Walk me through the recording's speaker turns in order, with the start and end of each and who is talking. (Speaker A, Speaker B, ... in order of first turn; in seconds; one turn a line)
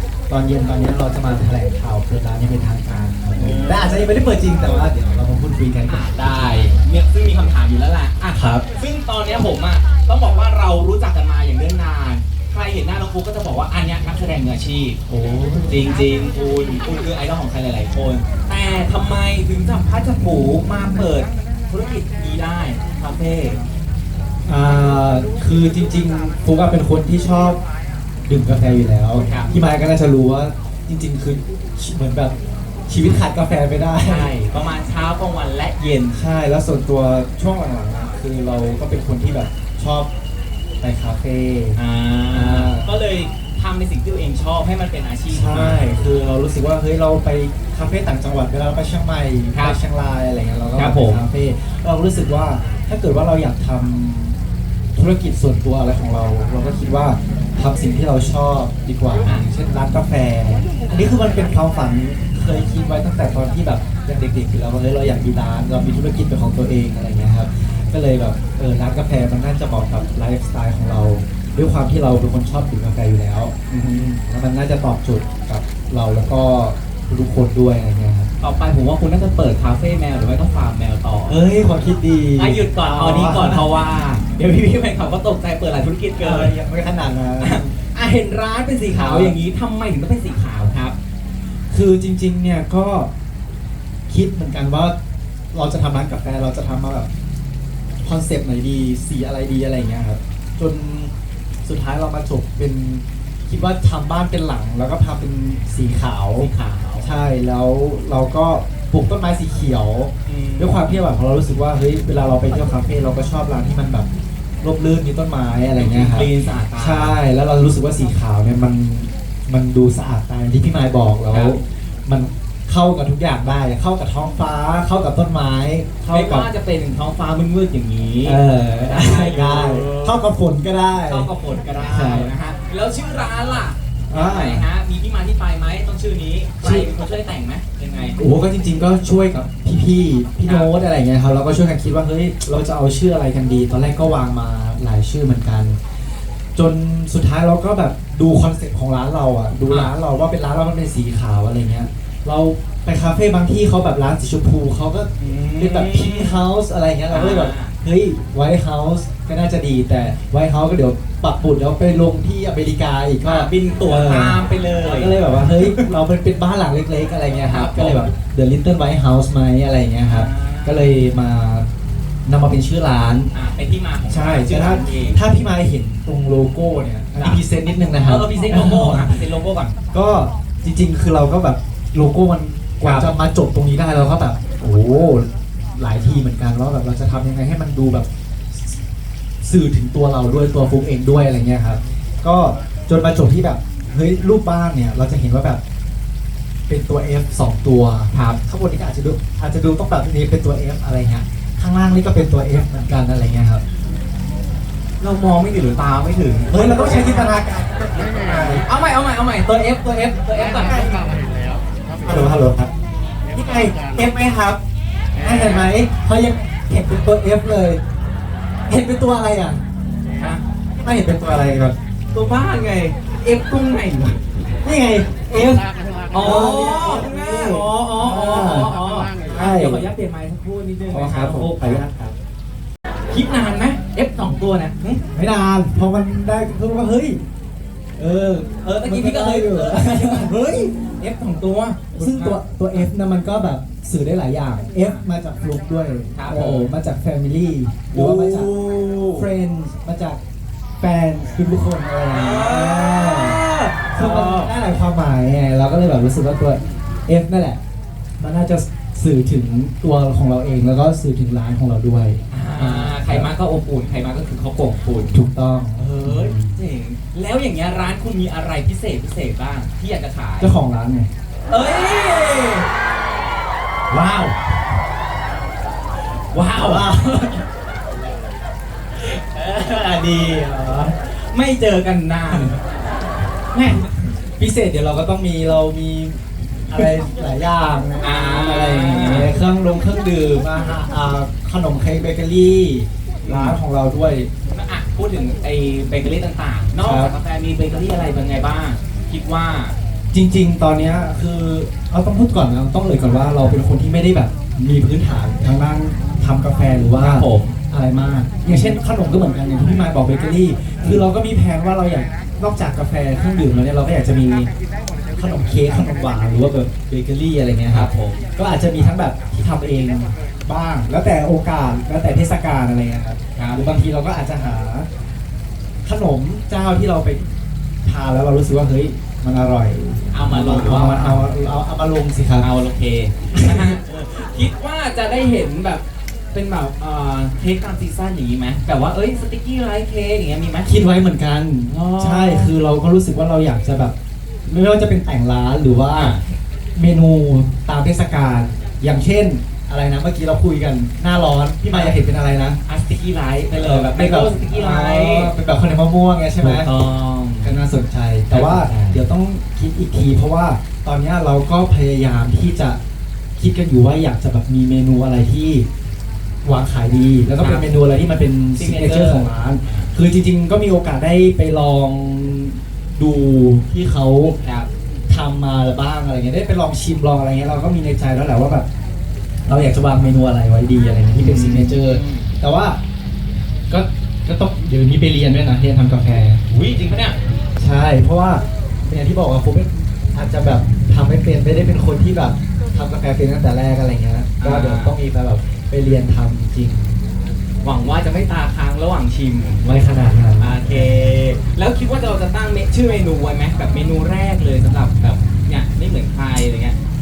Speaker A: 0.3-6.7
Speaker B: 3.4-4.0
Speaker B: 5.9-15.0
Speaker A: 8.3-8.6
Speaker A: 15.1-15.8
Speaker B: 15.7-23.6
Speaker A: 24.5-27.6
Speaker A: 28.3-32.4
Speaker B: 29.2-29.5
Speaker A: 32.9-34.3
Speaker B: 34.0-36.2
Speaker A: 36.1-40.1
Speaker A: 40.8-41.8
Speaker B: 41.8-45.9
Speaker A: 42.3-42.9
Speaker A: 45.3-54.4
Speaker B: 49.5-49.8
Speaker B: 50.8-51.2
Speaker A: 55.0-78.3
Speaker B: 73.7-74.1
Speaker B: 78.4-81.4
Speaker A: 81.3-83.6
Speaker B: 82.4-86.5
Speaker A: 86.2-87.7
Speaker B: 87.4-91.0
Speaker A: 88.9-89.4
Speaker A: 91.7-93.1
Speaker A: 94.1-95.0
Speaker A: 95.5-97.1
Speaker A: 98.0-101.1
Speaker A: 101.6-106.5
Speaker B: 106.4-107.1
Speaker A: 107.0-114.1
Speaker B: 110.2-111.0
Speaker A: 114.6-126.5
Speaker B: 115.7-117.2
Speaker B: 121.3-121.6
Speaker B: 126.1-130.2
Speaker A: 128.2-132.3
Speaker B: 131.1-138.2
Speaker A: 134.1-134.7
Speaker A: 136.6-136.9
Speaker A: 138.2-145.8
Speaker B: 140.4-140.7
Speaker A: 146.5-171.7
Speaker B: 149.7-149.9
Speaker B: 155.2-156.4
Speaker B: 157.1-157.7
Speaker B: 163.2-165.9
Speaker B: 167.4-168.1
Speaker B: 170.0-170.9
Speaker A: 172.2-173.3
Speaker B: 173.3-175.2
Speaker A: 174.1-179.2
Speaker B: 177.2-177.4
Speaker B: 178.0-179.8
Speaker A: 179.9-188.1
Speaker B: 182.8-183.1
Speaker A: 189.4-195.6
Speaker A: 196.7-203.6
Speaker B: 198.1-198.4
Speaker B: 205.0-207.3
Speaker A: 206.5-208.7
Speaker B: 208.6-211.0
Speaker A: 212.0-212.7
Speaker A: 213.3-214.6
Speaker A: 215.2-217.8
Speaker A: 218.7-219.6
Speaker B: 220.1-220.4
Speaker A: 220.8-221.8
Speaker B: 222.1-224.2
Speaker A: 224.6-229.9
Speaker B: 226.1-231.8
Speaker A: 230.9-232.2
Speaker B: 233.1-235.0
Speaker A: 235.1-237.2
Speaker A: 238.0-240.4
Speaker B: 238.6-242.8
Speaker A: 241.9-248.5
Speaker B: 244.7-245.0
Speaker B: 246.1-246.7
Speaker B: 247.9-249.3
Speaker A: 249.1-250.2
Speaker A: 250.8-257.6
Speaker B: 252.1-254.5
Speaker A: 258.2-263.3
Speaker B: 262.3-265.1
Speaker A: 265.1-266.6
Speaker B: 265.8-270.5
Speaker A: 270.4-271.1
Speaker B: 271.5-272.7
Speaker B: 273.9-274.5
Speaker B: 276.3-276.9
Speaker A: 276.6-277.4
Speaker B: 279.1-282.6
Speaker A: 279.6-280.9
Speaker A: 282.3-282.6
Speaker A: 283.5-294.3
Speaker B: 283.6-283.8
Speaker B: 288.0-289.3
Speaker B: 293.2-293.6
Speaker B: 294.5-299.8
Speaker A: 296.8-297.1
Speaker A: 300.1-314.5
Speaker B: 306.9-307.6
Speaker B: 308.4-308.8
Speaker A: 315.1-324.9
Speaker B: 317.7-318.2
Speaker B: 323.4-323.6
Speaker A: 325.8-327.3
Speaker A: 327.8-332.5
Speaker B: 330.1-331.3
Speaker B: 332.4-335.8
Speaker A: 333.3-333.8
Speaker B: 336.3-340.7
Speaker A: 340.6-343.9
Speaker B: 341.6-342.5
Speaker A: 344.4-346.2
Speaker B: 345.9-346.2
Speaker A: 346.7-352.6
Speaker B: 351.7-352.0
Speaker B: 352.6-355.3
Speaker A: 353.5-356.7
Speaker B: 356.4-357.6
Speaker A: 357.4-362.8
Speaker B: 358.3-359.0
Speaker A: 363.4-365.6
Speaker A: 366.4-374.4
Speaker B: 367.4-367.7
Speaker B: 368.6-369.9
Speaker B: 374.4-374.7
Speaker A: 375.1-378.6
Speaker A: 379.5-382.8
Speaker B: 381.2-382.3
Speaker A: 383.7-386.4
Speaker B: 386.5-387.2
Speaker A: 387.6-397.0
Speaker B: 394.4-394.9
Speaker B: 397.6-399.7
Speaker A: 399.6-401.0
Speaker B: 400.4-406.8